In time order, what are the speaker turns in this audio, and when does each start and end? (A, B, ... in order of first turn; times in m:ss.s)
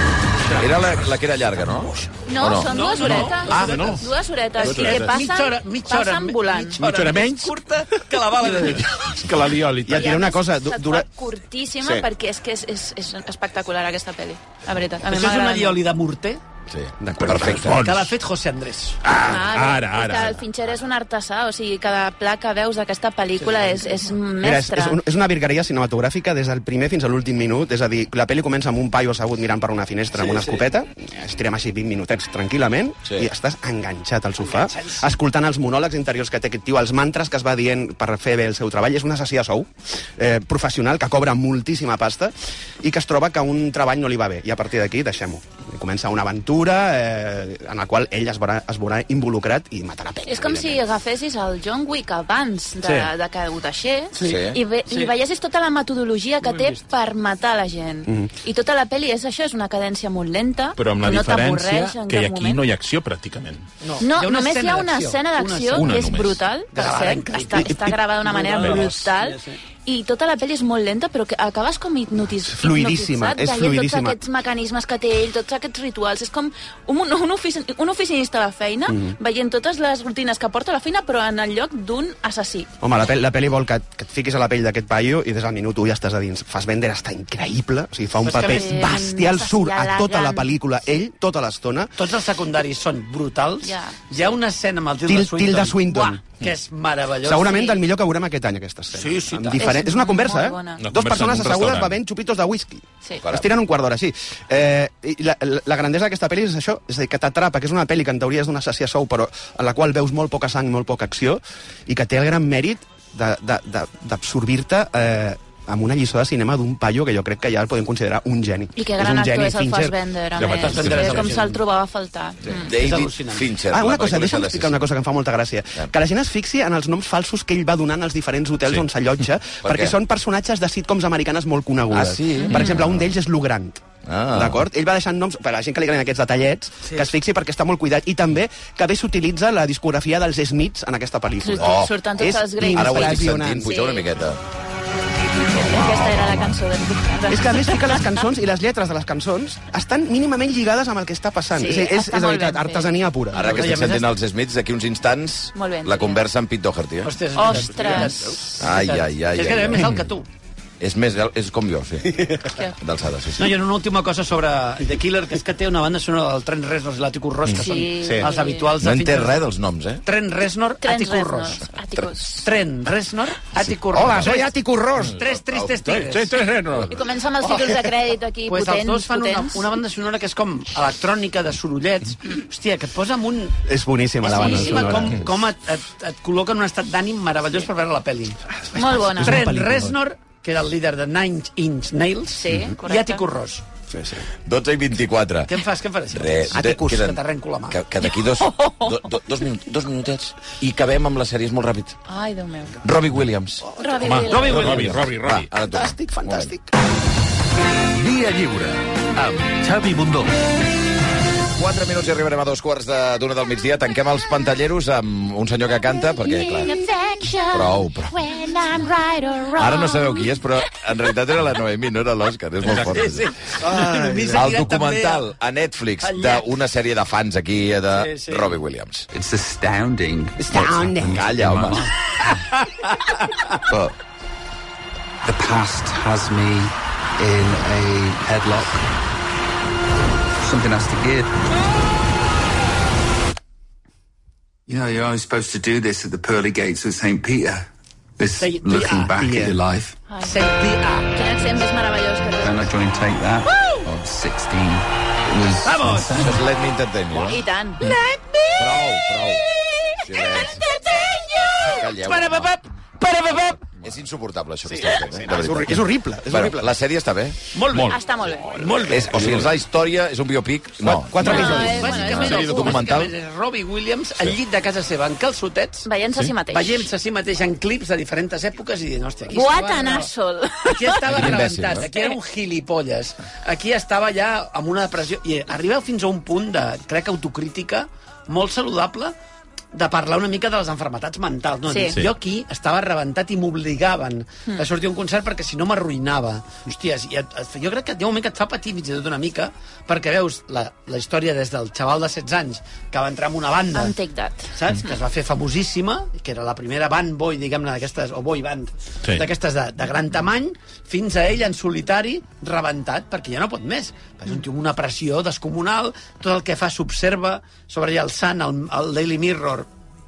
0:00.5-0:02.7 A
0:02.2-0:06.8 B
0:02.5-0:04.0 C
0:03.0-0:04.0 D
0:04.6-0:05.2 D
0:04.6-0:09.2 C
0:06.8-0:07.6 D
0:08.4-0:10.2 D
0:09.8-0:11.1 E
0:09.9-0:15.8 B
0:11.8-0:12.1 E
0:15.0-0:16.4 C
0:16.7-0:17.8 A
0:17.0-0:17.8 E
0:17.2-0:18.1 D
0:17.6-0:19.0 C
0:19.0-0:20.4 D
0:19.2-0:25.0 B
0:23.4-0:24.1 C
0:24.4-0:50.8 E
0:30.1-0:30.6 C
0:34.4-0:35.1 C
0:50.2-1:02.6 B
0:52.8-0:53.1 D
0:54.1-0:55.1 C
0:54.2-0:54.6 A
0:56.4-0:56.8 C
1:00.8-1:03.6 D
1:03.8-1:06.1 C
1:04.0-1:22.7 B
1:05.7-1:06.4 D
1:06.7-1:09.6 C
1:08.6-1:09.0 D
1:12.4-1:14.2 E
1:18.9-1:19.2 E
1:22.8-1:31.9 E
1:28.2-1:28.9 C
1:28.3-1:30.5 B
1:32.0-1:37.7 C
1:33.6-1:34.0 B
1:35.0-1:36.2 E
1:35.9-1:36.2 B
1:37.2-2:00.0 E
1:37.4-1:37.8 B
1:38.9-1:39.8 C
1:39.5-1:40.8 B
1:40.8-1:42.0 D
1:43.2-1:43.5 A
1:58.8-2:02.7 B
2:00.4-2:01.4 D
2:00.5-2:01.6 C
2:02.5-2:04.9 A
2:02.7-2:03.5 C
2:03.7-2:23.7 E
2:09.6-2:10.0 A
2:11.9-2:13.1 A
2:12.4-2:12.8 B
2:14.0-2:14.6 A
2:21.4-2:24.1 B
2:21.5-2:21.9 A
2:22.6-2:24.4 A
2:25.5-2:28.2 B
2:25.5-2:26.6 A
2:27.3-2:33.7 E
2:31.5-2:33.0 B
2:33.3-2:37.2 A
2:33.5-2:34.1 C
2:35.5-2:36.2 B
2:37.0-2:40.3 C
2:37.3-2:38.4 B
2:38.6-2:40.0 A
2:40.8-2:43.6 A
2:42.5-2:42.8 B
2:43.4-2:49.4 C
2:47.5-2:48.8 B
2:48.0-2:48.3 E
2:48.8-2:50.0 A
2:50.0-2:51.6 C
2:50.8-2:52.5 B
2:52.4-2:56.3 C
2:53.9-2:55.2 E
2:55.4-2:56.0 A
2:55.8-2:57.0 D
2:56.9-2:59.7 B
2:58.5-3:03.6 C
3:03.7-3:05.4 E
3:04.2-3:08.4 C
3:04.2-3:05.0 B
3:08.5-3:10.0 E
3:08.8-3:09.4 B
3:09.2-3:13.6 C
3:12.3-3:13.2 B
3:13.9-3:14.2 E
3:14.4-3:22.0 A
3:15.5-3:17.8 C
3:16.5-3:16.8 E
3:18.2-3:19.1 B
3:22.1-3:22.8 B
3:22.8-3:23.6 A
3:23.8-3:25.0 B
3:23.8-3:24.6 E
3:24.0-3:25.5 D
3:24.2-3:25.0 C
3:24.7-3:26.5 A
3:25.6-3:26.7 E
3:27.9-3:30.3 F
3:31.5-3:36.7 A
3:36.2-3:40.4 B
3:37.5-3:38.2 A
3:39.5-3:43.3 A
3:42.6-3:43.0 D
3:42.6-3:45.3 C
3:43.6-3:44.5 E
3:44.3-3:49.1 A
3:46.0-3:46.4 C
3:47.9-3:48.6 C
3:49.1-3:51.9 F
3:50.4-3:51.2 E
3:50.5-3:51.9 A
3:52.5-3:53.5 C
3:53.7-3:53.9 F
3:55.2-3:58.9 F
4:00.4-4:01.4 F
4:04.7-4:07.7 F
4:08.2-4:10.0 F
4:08.4-4:09.2 C
4:09.2-4:09.6 E
4:10.1-4:10.5 B
4:10.2-4:11.1 C
4:11.1-4:12.7 B
4:12.4-4:16.4 F
4:15.6-4:16.2 C
4:16.1-4:17.4 A
4:17.1-4:18.2 B
4:18.5-4:19.4 A
4:20.0-4:20.6 A
4:21.6-4:22.5 A
4:21.8-4:22.6 C
4:23.0-4:23.3 B
4:23.6-4:27.4 A
4:24.7-4:26.8 E
4:27.5-4:29.1 C
4:27.7-4:28.0 D
4:27.8-4:28.8 B
4:28.9-4:33.1 A
4:29.1-4:29.6 D
4:30.8-4:32.0 E
4:31.2-4:32.8 B
4:31.2-4:35.9 C
4:32.1-4:32.8 D
4:35.8-4:36.9 B
4:36.5-4:40.1 C
4:39.3-4:41.2 B
4:40.6-4:49.2 C
4:41.0-4:41.8 A
4:41.9-4:42.1 B
4:49.7-5:04.0 C
4:51.7-4:52.0 B
5:03.7-5:04.5 B
5:04.5-5:19.7 C